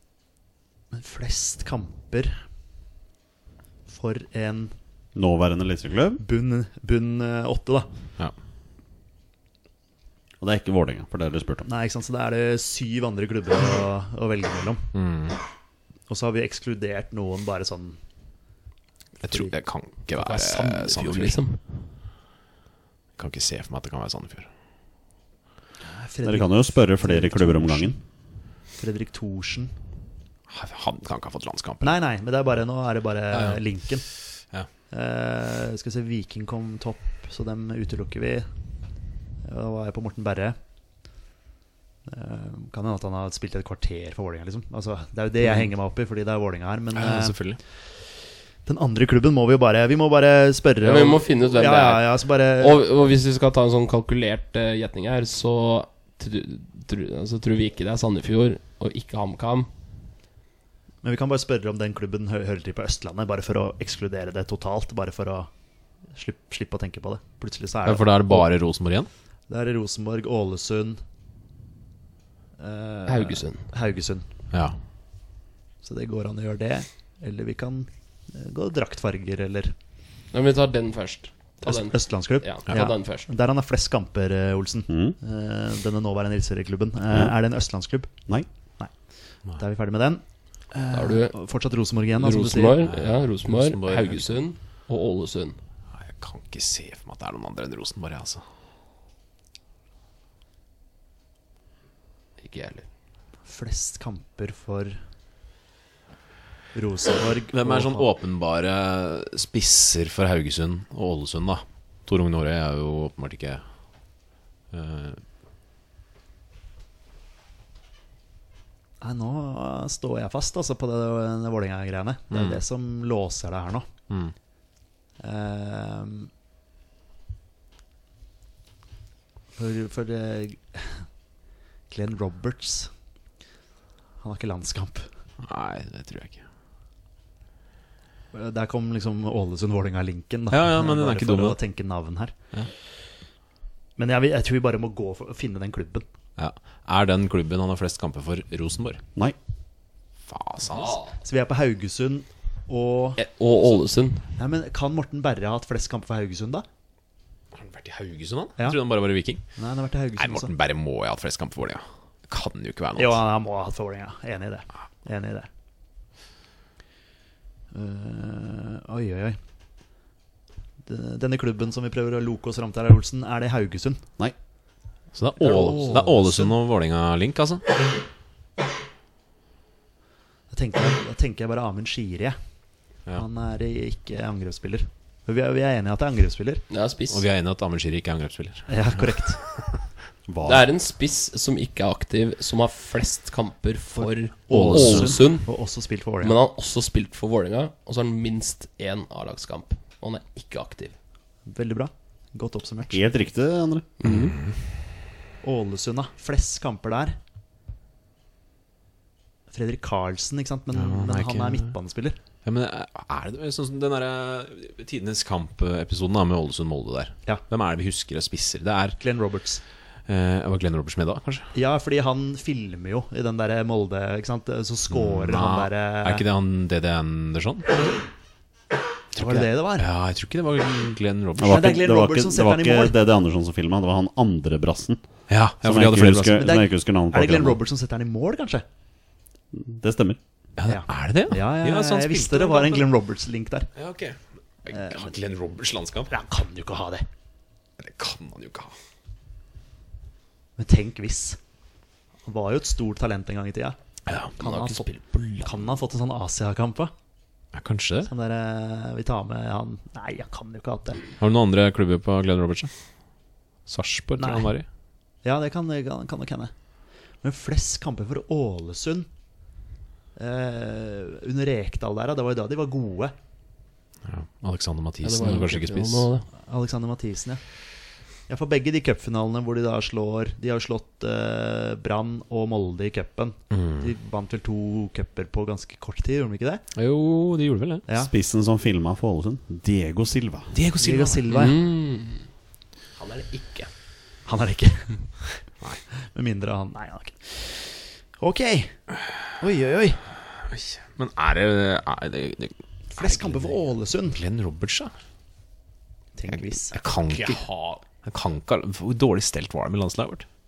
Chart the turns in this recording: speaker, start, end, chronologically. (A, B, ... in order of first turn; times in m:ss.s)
0:00.9-0:02.4 A
0:03.9-0:04.7 A
0:05.1-0:06.2 B
0:06.2-0:07.9 A
0:10.4-0:11.7 B
0:11.6-0:14.8 A
0:14.9-0:15.4 C
0:16.1-0:18.0 A
0:19.2-0:21.4 C
0:20.1-0:21.6 D
0:23.2-0:24.5 C
0:25.8-0:28.0 A
0:26.2-0:28.0 B
0:28.8-0:29.7 A
0:30.5-0:32.0 C
0:31.8-0:34.1 A
0:33.3-0:33.6 C
0:34.9-0:38.5 A
0:39.4-0:40.6 A
0:42.1-0:47.5 A
0:46.9-0:47.6 C
0:48.6-0:52.8 A
0:50.8-0:59.7 D
1:01.0-1:05.5 A
1:06.1-1:08.4 A
1:07.8-1:09.1 C
1:09.5-1:11.0 A
1:12.6-1:14.2 A
1:13.0-1:13.6 D
1:15.8-1:19.7 A
1:20.3-1:23.3 D
1:21.6-1:28.1 A
1:24.9-1:25.2 B
1:27.1-1:27.3 B
1:29.5-1:32.8 A
1:30.9-1:31.4 D
1:32.2-1:35.6 D
1:32.8-1:34.3 C
1:36.0-1:38.4 C
1:42.4-1:42.8 D
1:43.4-1:45.0 A
1:46.7-1:48.1 A
1:47.5-1:53.6 C
1:54.7-1:55.2 C
1:59.0-2:03.9 A
2:02.3-2:02.6 C
2:05.2-2:06.3 A
2:09.6-2:11.0 A
2:11.9-2:12.9 A
2:14.2-2:15.1 A
2:15.4-2:16.4 C
2:18.3-2:22.3 A
2:20.5-2:21.6 C
2:24.0-2:26.0 A
2:26.4-2:29.0 C
2:30.3-2:31.0 C
2:30.7-2:31.1 D
2:31.2-2:33.2 A
2:33.2-2:34.3 D
2:34.4-2:36.6 A
2:37.5-2:39.4 C
2:39.6-2:40.5 A
2:40.2-2:43.2 C
2:43.0-2:45.5 A
2:47.7-2:49.4 A
2:50.8-2:54.0 A
2:55.1-2:57.6 C
2:55.4-2:56.5 A
3:00.5-3:02.4 A
3:03.1-3:06.6 A
3:06.7-3:07.2 D
3:07.1-3:09.7 C
3:08.7-3:09.4 A
3:10.3-3:10.6 B
3:10.4-3:15.5 D
3:14.0-3:16.4 A
3:14.5-3:15.2 C
3:16.2-3:20.9 D
3:21.5-3:23.0 A
3:22.9-3:23.8 B
3:24.0-3:24.4 D
3:24.0-3:24.6 C
3:25.4-3:27.2 A
3:29.5-3:32.2 A
3:30.7-3:31.7 C
3:32.4-3:39.0 C
3:39.0-3:39.6 A
3:40.1-3:41.5 C
3:41.5-3:46.2 A
3:44.9-3:47.8 C
3:49.1-3:51.7 C
3:49.1-3:49.9 A
3:51.4-3:55.0 B
3:51.4-3:52.9 A
3:55.3-3:56.5 C
3:55.6-3:57.6 B
3:56.4-3:58.6 A
3:59.5-4:00.2 B
4:00.6-4:02.9 C
4:00.7-4:03.7 A
4:03.8-4:06.1 C
4:04.7-4:05.1 A
4:06.1-4:07.0 A
4:07.8-4:08.7 C
4:10.6-4:11.4 A
4:12.2-4:13.8 A
4:14.1-4:14.3 C
4:14.4-4:14.8 A
4:14.4-4:15.7 D
4:15.4-4:16.9 A
4:17.5-4:18.1 C
4:18.0-4:21.0 A
4:21.2-4:22.7 C
4:23.7-4:24.6 C
4:24.2-4:24.5 A
4:25.2-4:26.5 A
4:27.2-4:29.1 A
4:30.2-4:33.1 A
4:34.0-4:36.1 C
4:35.0-4:36.3 D
4:36.4-4:37.4 A
4:38.3-4:46.6 A
4:43.5-4:43.9 C
4:46.7-4:47.8 C
4:47.9-4:50.5 B
4:50.5-4:51.4 C
4:50.8-4:51.6 A
4:51.3-4:52.3 D
4:53.0-4:53.7 D
4:54.2-4:55.1 A
4:56.1-4:58.8 A
4:59.4-5:00.0 A
5:00.5-5:03.6 C
5:02.9-5:04.2 A
5:04.1-5:04.9 C
5:06.2-5:07.2 A
5:06.3-5:07.4 C
5:07.1-5:07.8 D
5:08.0-5:10.2 C